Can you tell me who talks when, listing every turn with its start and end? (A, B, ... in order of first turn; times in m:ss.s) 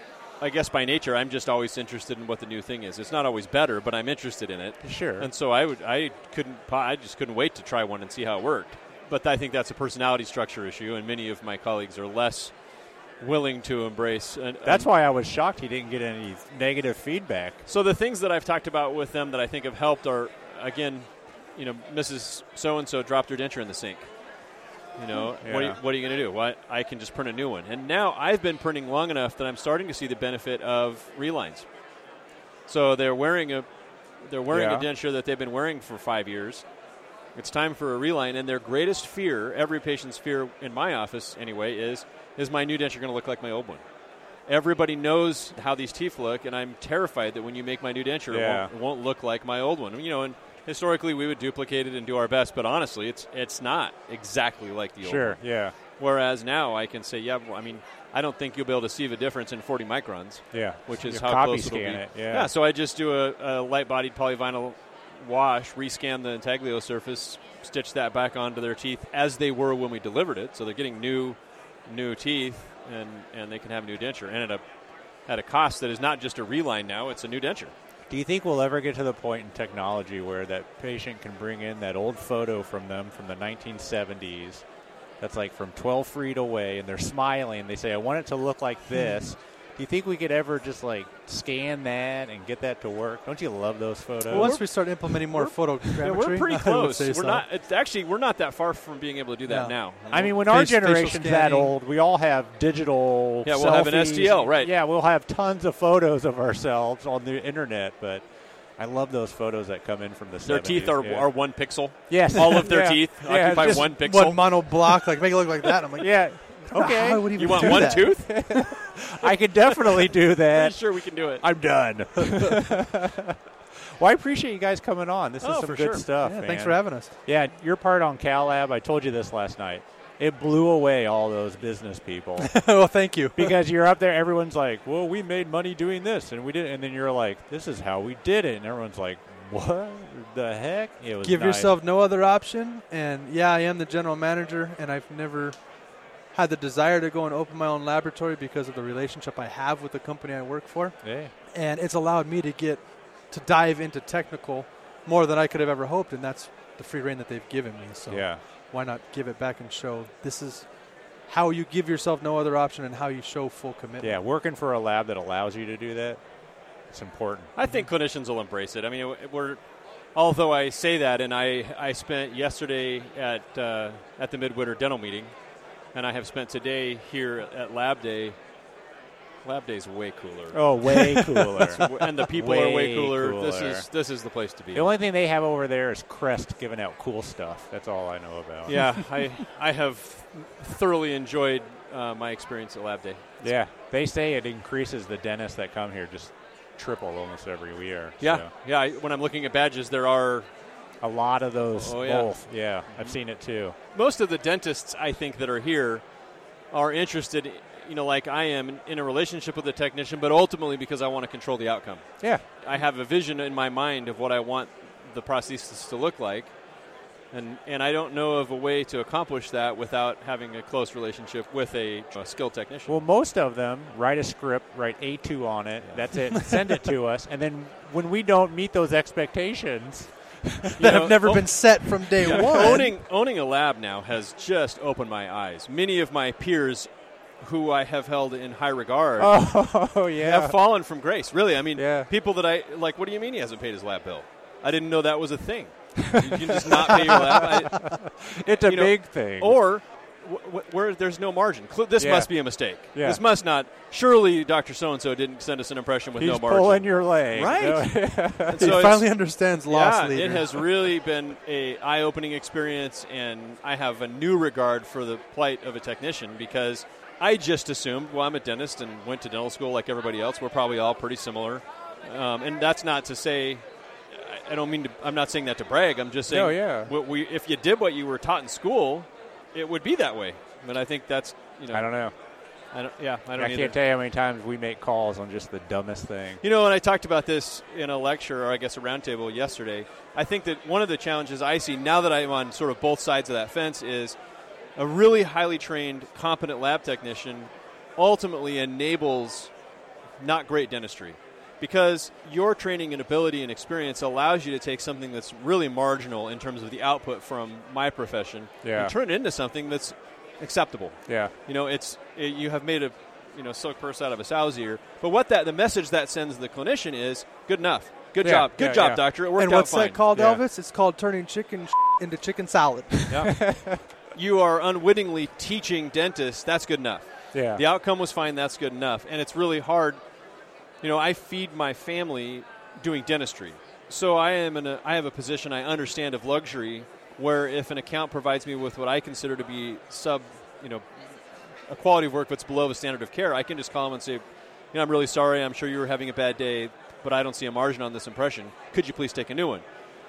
0:00.4-0:12.5 A
0:04.8-0:05.3 B
0:13.2-0:14.9 A
0:14.6-0:17.6 B
0:17.7-0:24.1 A
0:25.0-0:31.7 A
0:25.4-0:25.8 B
0:32.7-0:33.7 A
0:34.2-0:36.6 A
0:34.5-0:34.9 B
0:37.4-0:43.8 A
0:44.5-0:55.4 A
0:48.3-0:48.7 B
0:55.0-0:55.8 B
0:56.0-1:14.6 A
1:00.5-1:02.5 B
1:15.3-1:17.7 A
1:18.1-1:24.6 B
1:25.2-1:34.6 B
1:28.9-1:29.3 C
1:34.3-1:37.4 C
1:34.3-1:40.4 A
1:39.5-1:39.8 C
1:40.1-1:48.2 B
1:40.3-1:41.7 C
1:43.4-1:44.7 A
1:48.8-1:54.0 B
1:50.4-1:55.0 A
1:54.0-1:58.7 C
1:56.0-2:12.6 B
1:57.4-1:58.6 A
2:00.5-2:01.5 A
2:05.4-2:06.1 A
2:06.2-2:07.1 C
2:12.4-2:13.6 C
2:13.4-2:21.8 B
2:21.2-2:25.6 C
2:26.3-2:40.7 C
2:31.0-2:31.3 B
2:38.1-2:38.4 B
2:41.3-2:44.2 C
2:44.0-2:46.2 B
2:46.9-2:47.5 B
2:47.6-2:49.6 A
2:50.2-2:55.3 A
2:55.9-2:58.4 A
2:59.4-3:01.2 A
3:00.5-3:03.9 B
3:01.7-3:04.9 A
3:04.7-3:09.0 B
3:08.7-3:13.5 A
3:13.4-3:18.5 B
3:18.2-3:20.5 A
3:21.0-3:23.8 B
3:21.8-3:23.2 A
3:23.9-3:26.0 A
3:26.7-3:36.5 A
3:37.3-3:43.0 A
3:42.9-3:50.8 B
3:50.8-3:56.9 A
3:50.8-3:52.9 C
3:52.3-3:52.8 B
3:57.4-3:59.6 A
3:59.2-4:00.6 B
4:00.2-4:17.1 A
4:01.8-4:02.1 B
4:06.2-4:09.6 B
4:12.0-4:13.2 B
4:16.2-4:18.9 B
4:17.3-4:20.6 C
4:18.5-4:42.1 A
4:36.3-4:36.9 B
4:41.7-4:42.1 B
4:42.7-4:43.8 A
4:43.4-4:46.4 B
4:46.4-4:54.2 A
4:54.8-4:59.5 A
5:00.2-5:20.0 A
5:08.6-5:09.0 B
5:11.1-5:11.3 B
5:18.2-5:19.0 B
5:19.4-5:23.1 C
5:20.1-5:20.4 B
5:23.1-5:23.3 A
5:23.1-5:23.8 B
5:24.1-5:30.0 A
5:27.3-5:27.6 B
5:30.8-5:40.8 A
5:41.7-5:49.6 A